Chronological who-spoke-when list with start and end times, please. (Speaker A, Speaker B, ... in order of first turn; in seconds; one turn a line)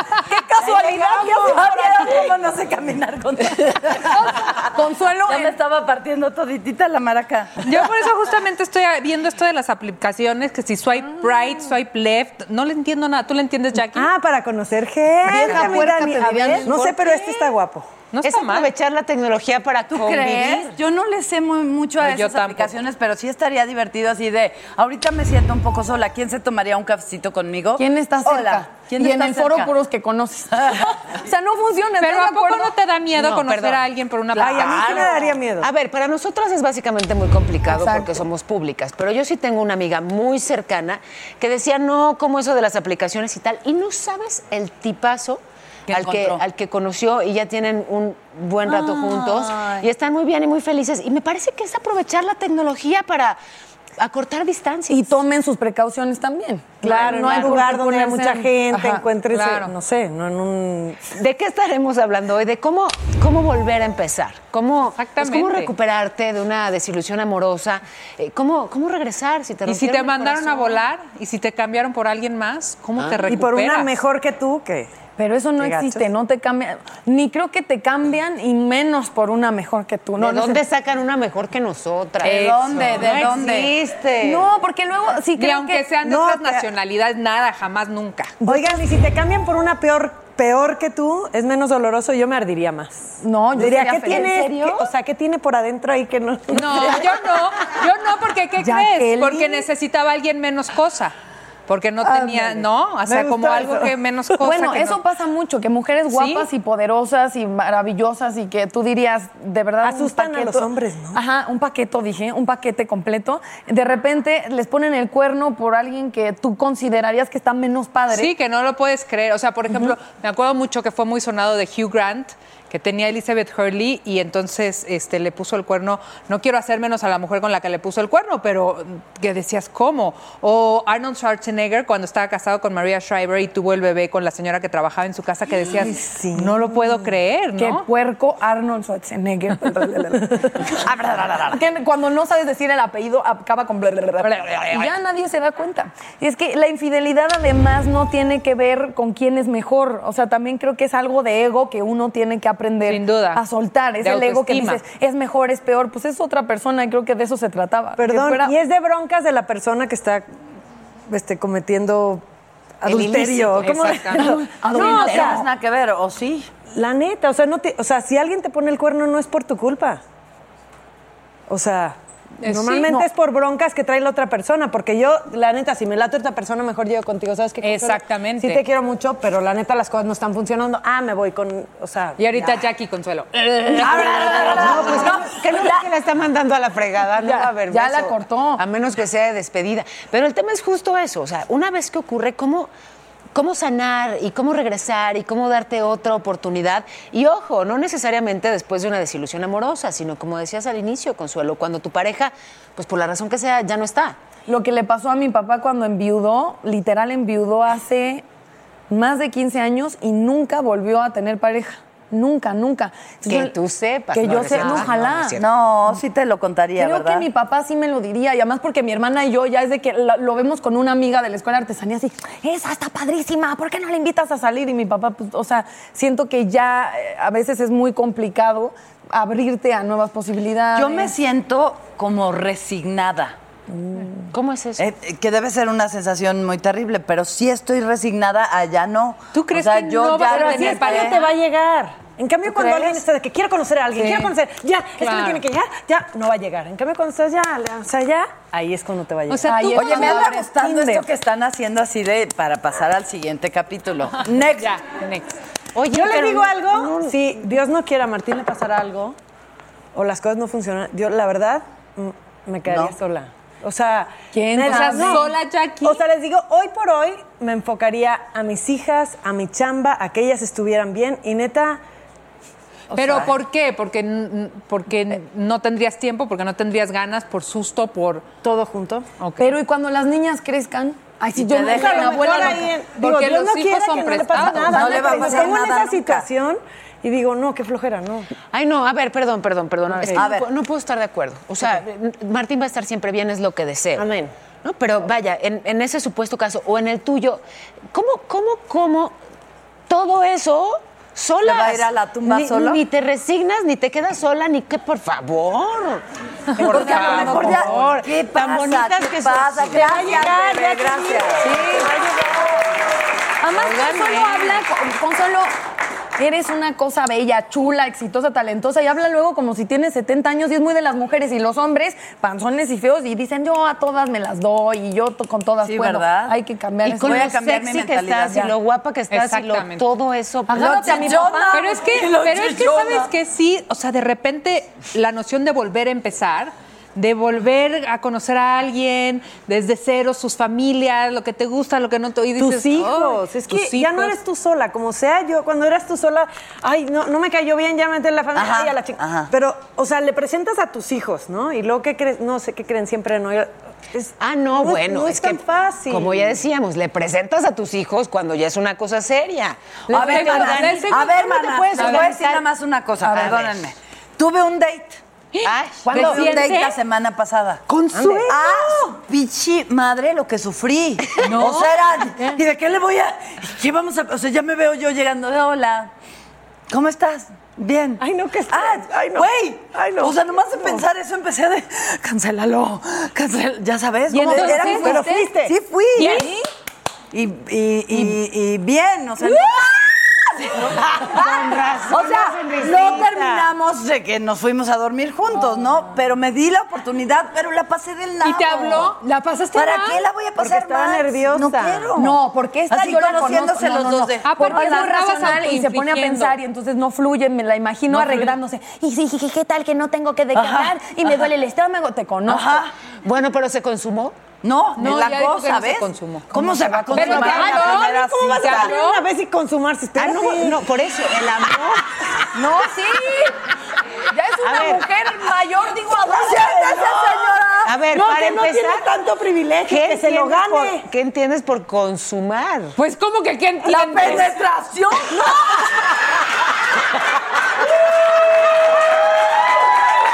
Speaker A: 0.3-2.1
Speaker B: 0.6-4.7
Speaker C: 0.6-1.7
Speaker A: 4.2-5.6
Speaker B: 5.3-7.8
Speaker D: 7.7-14.1
Speaker C: 13.9-17.9
Speaker B: 15.3-16.7
Speaker A: 15.3-16.8
Speaker D: 15.3-17.5
Speaker D: 18.1-18.7
Speaker E: 18.2-20.8
Speaker B: 19.9-29.7
Speaker D: 22.0-22.7
Speaker A: 27.8-32.7
Speaker D: 32.0-35.2
Speaker E: 33.1-53.4
Speaker C: 34.4-35.7
Speaker A: 37.7-38.2
Speaker B: 45.9-46.4
Speaker B: 48.7-49.9
Speaker E: 54.0-55.2
Speaker A: 54.9-59.0
Speaker C: 56.8-61.1
Speaker D: 59.3-59.8
Speaker E: 61.1-70.8
Speaker D: 65.0-65.7
Speaker D: 69.7-73.9
Speaker E: 73.0-73.3
Speaker C: 73.3-74.9
Speaker A: 75.2-80.6
Speaker C: 75.6-76.1
Speaker E: 80.2-84.4
Speaker B: 82.2-83.8
Speaker A: 84.2-85.9
Speaker D: 85.3-88.4
Speaker C: 86.0-86.7
Speaker C: 88.4-97.2
Speaker A: 88.4-88.9
Speaker A: 93.2-94.8
Speaker D: 96.5-101.2
Speaker A: 98.6-99.7
Speaker D: 101.7-105.0
Speaker A: 102.0-102.6
Speaker C: 103.1-103.9
Speaker A: 104.4-118.3
Speaker D: 106.1-106.5
Speaker C: 109.8-111.2
Speaker D: 118.1-137.9
Speaker C: 135.7-137.1
Speaker A: 137.6-140.7
Speaker B: 140.8-141.6
Speaker A: 141.5-158.5
Speaker D: 152.8-153.4
Speaker D: 154.0-154.8
Speaker C: 158.0-160.2
Speaker C: 161.1-162.2
Speaker C: 162.8-165.4
Speaker E: 162.9-163.9
Speaker D: 163.5-164.4
Speaker A: 164.5-165.4
Speaker B: 164.6-166.5
Speaker C: 166.7-170.0
Speaker C: 171.5-182.6
Speaker D: 172.4-173.1
Speaker D: 177.6-178.6
Speaker D: 182.2-185.1
Speaker C: 183.8-185.3
Speaker A: 184.1-184.6
Speaker E: 184.3-192.7
Speaker A: 187.2-188.6
Speaker E: 193.3-204.2
Speaker A: 204.5-208.2
Speaker A: 208.9-213.5
Speaker E: 213.3-215.5
Speaker A: 214.1-215.4
Speaker B: 214.4-214.8
Speaker B: 215.4-217.3
Speaker A: 216.8-231.1
Speaker B: 230.7-233.4
Speaker E: 234.3-234.9
Speaker B: 234.8-241.2
Speaker D: 239.3-241.4
Speaker C: 240.2-251.1
Speaker D: 243.9-244.3
Speaker D: 245.0-245.4
Speaker D: 249.3-250.4
Speaker A: 249.4-250.5
Speaker B: 249.7-254.9
Speaker D: 254.5-255.4
Speaker E: 255.8-257.1
Speaker C: 255.9-259.2
Speaker C: 259.9-271.8
Speaker B: 262.7-262.9
Speaker A: 264.3-265.4
Speaker D: 264.6-266.1
Speaker C: 272.9-273.4
Speaker D: 272.9-278.3
Speaker C: 278.4-279.1
Speaker D: 279.2-279.6
Speaker A: 279.4-282.7
Speaker B: 281.4-282.4
Speaker C: 281.6-288.3
Speaker D: 282.2-285.3
Speaker B: 284.7-286.3
Speaker E: 288.5-299.2
Speaker B: 290.1-290.5
Speaker C: 294.0-294.3
Speaker E: 299.9-306.0
Speaker B: 301.4-302.8
Speaker E: 306.6-310.2
Speaker B: 306.6-311.6
Speaker A: 306.7-307.5
Speaker C: 306.7-307.8
Speaker C: 309.6-312.7
Speaker A: 311.4-311.8
Speaker A: 313.4-315.5
Speaker E: 313.5-314.6
Speaker A: 316.2-327.3
Speaker B: 325.6-326.4
Speaker E: 326.8-331.2
Speaker B: 327.0-328.5
Speaker D: 329.1-329.9
Speaker A: 330.5-331.8
Speaker B: 330.5-333.1
Speaker D: 331.5-344.2
Speaker C: 342.4-356.4
Speaker B: 348.3-349.3
Speaker E: 354.2-362.4
Speaker D: 359.9-361.2
Speaker B: 359.9-365.0
Speaker D: 361.7-362.2
Speaker E: 363.1-363.5
Speaker D: 365.4-366.8
Speaker E: 365.4-366.3
Speaker B: 365.9-367.6
Speaker C: 365.9-366.4
Speaker E: 367.7-368.4
Speaker C: 367.9-368.8
Speaker B: 368.3-375.9
Speaker D: 371.2-371.7
Speaker B: 376.7-386.3
Speaker C: 378.0-380.8
Speaker D: 384.1-385.1
Speaker A: 384.2-385.3
Speaker C: 384.4-385.5
Speaker D: 386.0-386.4
Speaker B: 387.1-399.0
Speaker D: 389.2-389.6
Speaker E: 390.8-393.5
Speaker C: 391.1-393.1
Speaker D: 398.2-400.0
Speaker B: 399.5-402.2
Speaker C: 400.4-402.0
Speaker A: 401.9-412.6
Speaker B: 402.7-404.8
Speaker D: 404.2-406.4
Speaker D: 407.9-408.4
Speaker B: 410.3-410.8
Speaker B: 412.3-412.7
Speaker E: 413.0-414.2
Speaker B: 414.4-418.7
Speaker D: 414.8-416.3
Speaker A: 416.3-417.7
Speaker D: 416.9-419.1
Speaker C: 417.2-420.6
Speaker E: 420.0-421.8
Speaker A: 422.4-423.3
Speaker A: 424.1-427.7
Speaker E: 424.4-424.8
Speaker B: 426.1-427.4
Speaker E: 427.6-428.9
Speaker C: 427.9-430.8
Speaker E: 429.7-432.8
Speaker D: 432.8-434.4
Speaker B: 433.7-435.4